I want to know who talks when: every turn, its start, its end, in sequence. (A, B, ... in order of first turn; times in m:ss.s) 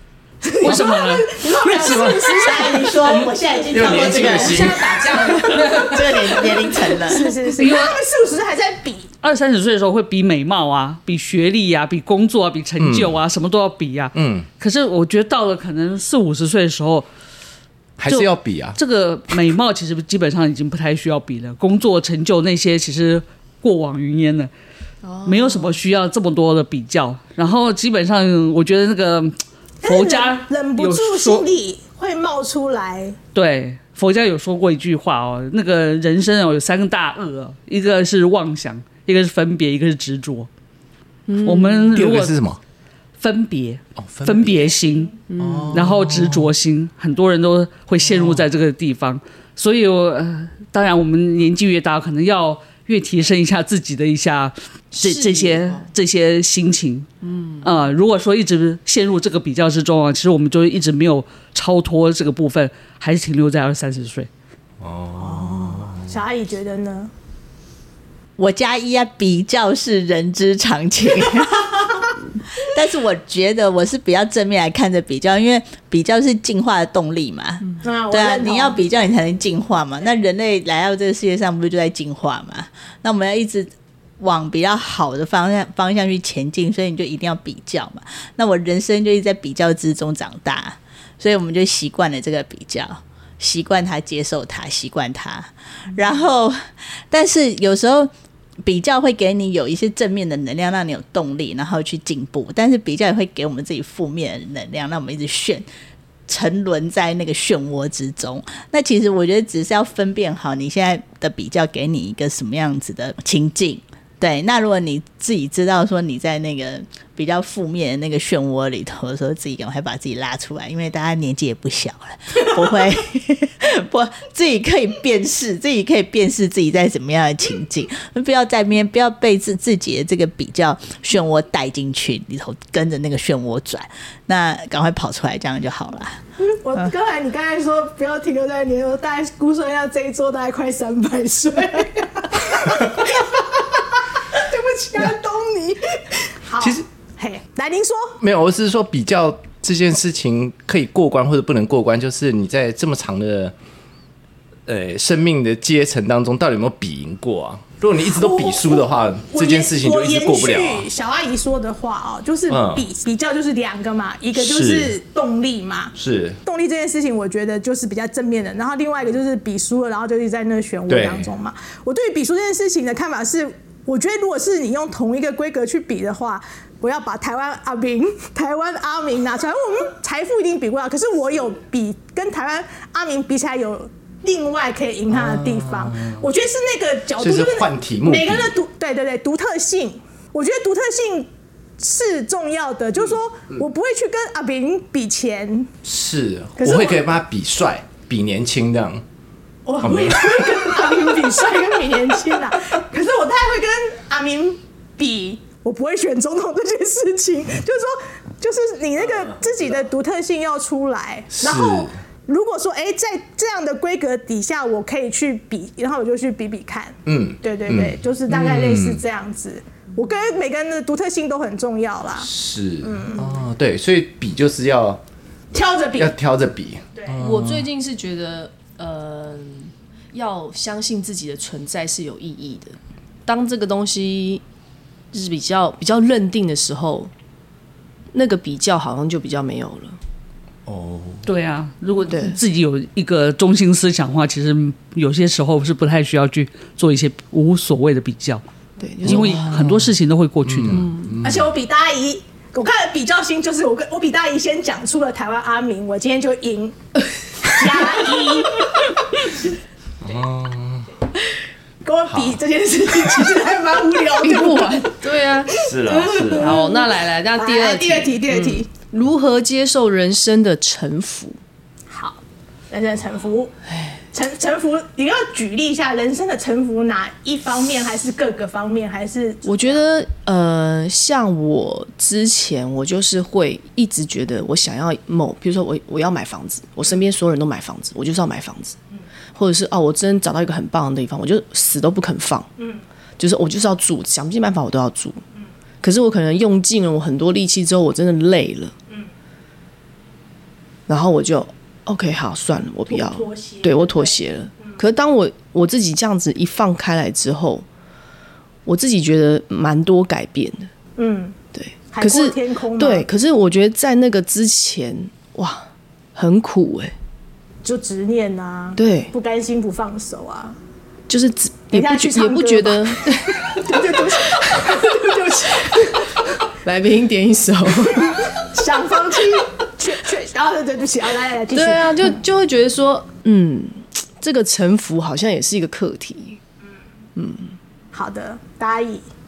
0:00.4-0:03.1 A
0:00.6-0:02.5 B
0:01.6-0:02.8 C
0:02.4-0:04.8 D
0:03.7-0:05.4 E
0:04.0-0:06.2 C
0:05.5-0:05.9 B
0:05.5-0:07.4 D
0:07.0-0:09.1 A
0:07.6-0:07.9 B
0:09.2-0:17.1 B
0:12.8-0:13.2 E
0:14.1-0:14.5 E
0:18.0-0:18.8 E
0:18.1-0:24.5 B
0:25.0-0:25.8 C
0:25.2-0:31.5 B
0:29.8-0:33.2 A
0:33.3-0:40.5 B
0:41.3-0:41.9 C
0:41.4-0:42.3 B
0:41.9-0:42.6 E
0:43.2-0:45.1 B
0:44.0-0:44.5 E
0:45.3-0:45.8 C
0:45.4-0:46.5 E
0:45.7-0:57.1 B
0:48.0-0:48.4 E
0:54.9-0:55.9 C
0:57.2-0:57.8 C
0:57.6-1:04.3 B
1:04.8-1:06.2 E
1:05.2-1:07.1 A
1:08.4-1:36.6 D
1:17.8-1:18.8 A
1:37.1-1:38.1 D
1:38.6-1:45.6 D
1:46.3-2:16.2 D
2:16.4-2:28.2 A
2:28.2-2:33.5 E
2:34.7-2:40.9 E
2:38.1-3:15.7 A
2:42.5-2:42.9 E
2:44.3-2:44.9 E
2:46.0-2:46.4 E
2:50.9-2:51.3 E
3:05.1-3:06.3 E
3:07.2-3:08.5 E
3:15.8-3:19.0 E
3:16.6-3:17.0 A
3:19.6-3:42.3 A
3:19.8-3:21.3 E
3:29.1-3:29.4 E
3:31.3-3:31.9 E
3:37.0-3:39.0 E
3:42.2-3:45.0 E
3:42.8-3:43.2 A
3:45.5-3:46.1 A
3:45.9-3:47.7 E
3:47.2-3:54.4 C
3:55.1-3:57.1 C
3:58.1-4:00.0 C
4:00.6-4:01.3 E
4:01.2-4:08.4 B
4:02.0-4:02.4 C
4:08.8-4:09.7 C
4:09.0-4:10.8 B
4:09.1-4:09.9 E
4:10.4-4:11.5 E
4:10.7-4:11.2 C
4:11.2-4:16.8 A
4:17.4-4:19.3 A
4:20.0-4:20.9 E
4:21.8-4:28.7 A
4:22.1-4:22.4 E
4:24.2-4:25.5 C
4:25.6-4:26.6 E
4:26.3-4:31.4 C
4:31.9-4:33.6 A
4:33.7-4:34.0 C
4:34.1-4:39.8 A
4:39.4-4:48.8 C
4:49.3-4:52.5 C
4:53.2-4:55.2 C
4:55.8-4:58.8 C
5:00.9-5:07.6 C
5:02.9-5:04.2 A
5:08.6-5:10.7 C
5:11.0-5:11.4 A
5:11.5-5:16.9 C
5:11.9-5:13.0 A
5:17.6-5:20.6 A
5:18.8-5:19.1 C
5:21.1-5:28.4 C
5:21.7-5:25.3 A
5:28.1-5:32.1 A
5:31.5-5:36.4 C
5:37.2-5:37.6 C
5:37.9-5:39.0 A